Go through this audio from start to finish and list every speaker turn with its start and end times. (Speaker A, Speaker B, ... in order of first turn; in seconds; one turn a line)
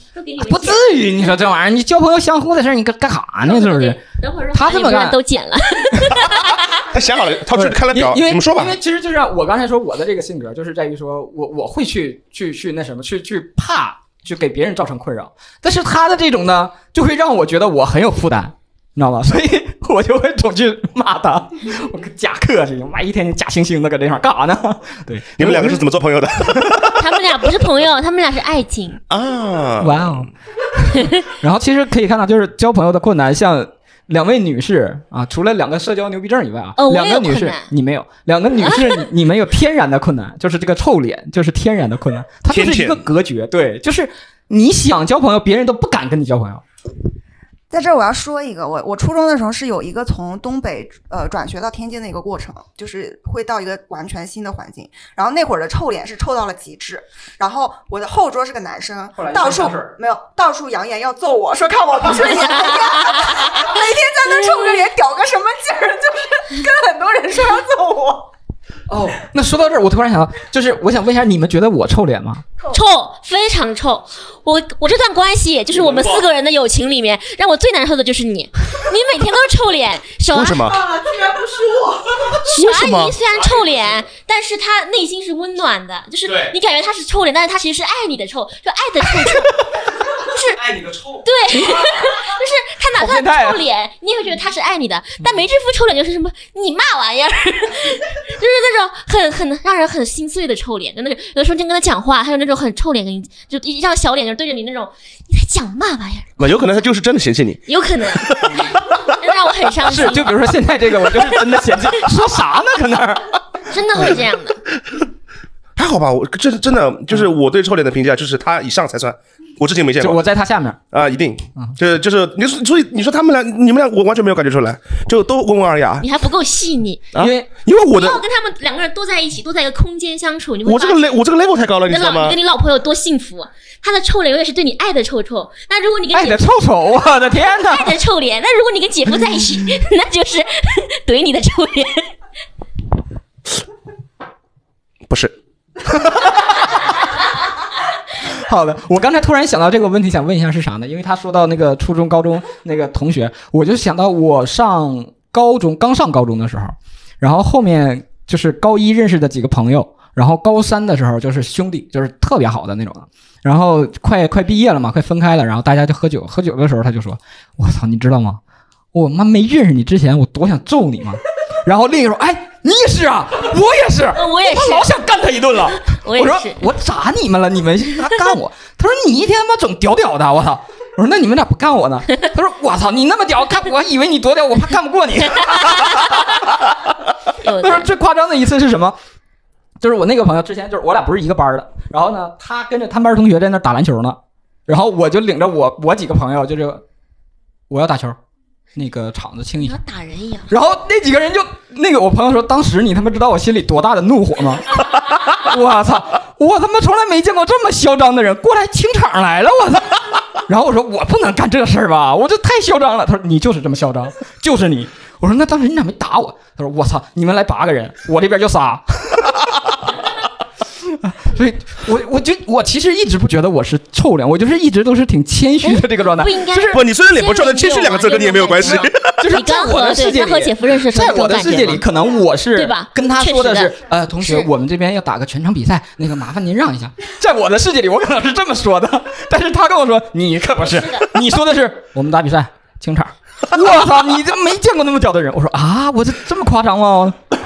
Speaker A: 0.1-1.0
Speaker B: 0.4-4.0
Speaker A: 3.4-6.8
Speaker B: 4.5-5.2
Speaker C: 6.8-8.8
Speaker B: 7.5-25.8
Speaker C: 25.4-27.1
Speaker A: 27.0-29.0
Speaker C: 29.1-30.2
Speaker B: 29.8-30.3
Speaker B: 30.9-46.6
Speaker A: 36.8-37.7
Speaker A: 38.6-39.0
Speaker C: 42.5-43.1
Speaker D: 47.7-68.3
Speaker B: 59.1-59.9
Speaker A: 64.3-64.6
Speaker B: 68.9-72.4
Speaker A: 72.7-80.7
Speaker E: 75.7-76.2
Speaker C: 80.3-80.8
Speaker E: 80.8-82.4
Speaker A: 82.5-89.6
Speaker C: 82.6-83.1
Speaker E: 83.3-84.0
Speaker E: 86.2-86.5
Speaker A: 90.3-90.6
Speaker E: 90.4-91.2
Speaker A: 91.2-106.3
Speaker B: 93.0-93.6
Speaker C: 106.4-108.7
Speaker A: 107.7-110.5
Speaker B: 109.8-113.3
Speaker A: 113.7-114.6
Speaker C: 115.8-120.2
Speaker B: 120.0-120.8
Speaker C: 120.9-126.1
Speaker A: 126.0-127.1
Speaker C: 127.1-128.2
Speaker B: 127.2-127.5
Speaker A: 127.8-131.2
Speaker C: 130.6-132.4
Speaker A: 131.9-136.4
Speaker B: 136.1-138.0
Speaker A: 137.3-142.1
Speaker C: 145.1-145.3
Speaker B: 145.9-146.6
Speaker B: 148.2-168.4
Speaker B: 168.9-186.4
Speaker A: 174.2-174.9
Speaker A: 175.9-176.6
Speaker A: 185.5-186.2
Speaker A: 187.4-187.9
Speaker B: 187.5-189.0
Speaker B: 189.8-196.8
Speaker B: 197.7-198.2
Speaker B: 198.7-199.8
Speaker A: 199.6-200.5
Speaker B: 200.5-219.4
Speaker B: 221.0-226.8
Speaker A: 225.6-231.8
Speaker C: 226.7-229.1
Speaker B: 228.6-247.2
Speaker A: 232.5-234.5
Speaker A: 240.6-241.1